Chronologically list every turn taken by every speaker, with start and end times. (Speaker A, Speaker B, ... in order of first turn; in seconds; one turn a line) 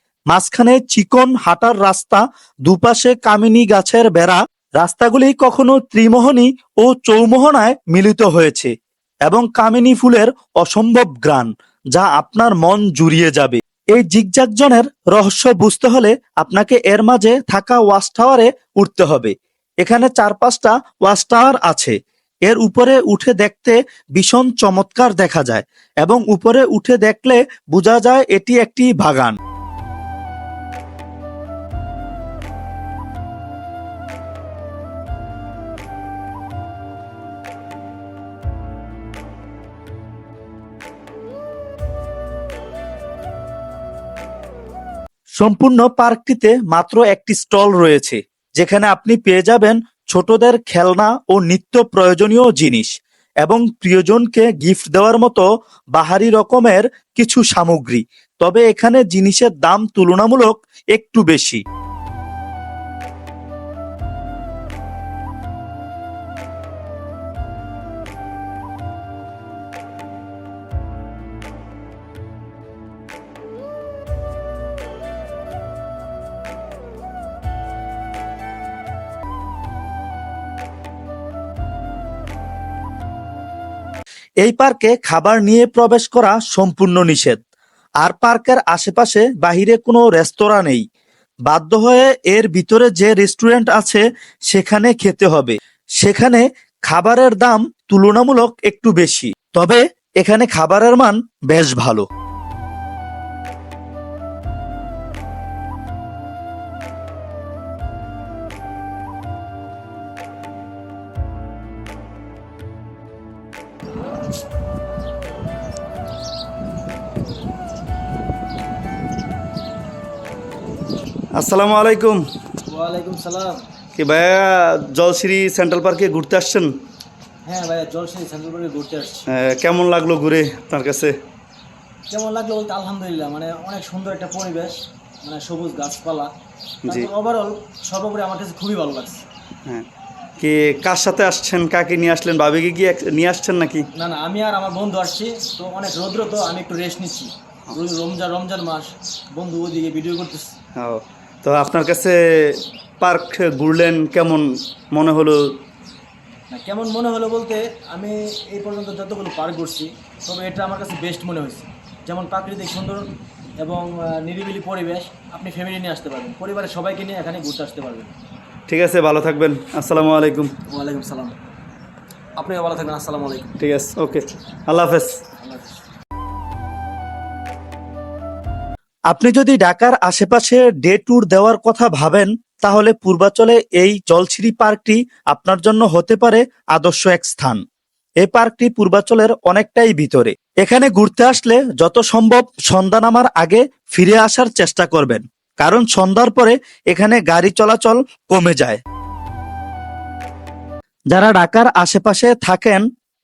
Speaker A: 0.3-8.7
Speaker A: 9.2-29.4
Speaker A: 45.4-52.9
Speaker A: 53.4-61.6
Speaker A: 84.4-87.4
Speaker A: 88.0-90.8
Speaker A: 91.5-102.1
Speaker A: 121.3-122.2
Speaker B: 122.7-123.6
Speaker A: 124.0-126.7
Speaker B: 127.5-129.2
Speaker A: 129.3-131.1
Speaker B: 132.1-136.3
Speaker B: 136.8-139.2
Speaker A: 140.4-143.9
Speaker B: 144.0-150.5
Speaker A: 150.8-155.6
Speaker B: 156.5-168.1
Speaker A: 168.7-170.5
Speaker B: 170.7-171.4
Speaker B: 172.4-173.6
Speaker A: 173.6-175.1
Speaker B: 175.4-175.8
Speaker A: 179.1-187.6
Speaker A: 188.2-198.8
Speaker A: 201.1-202.8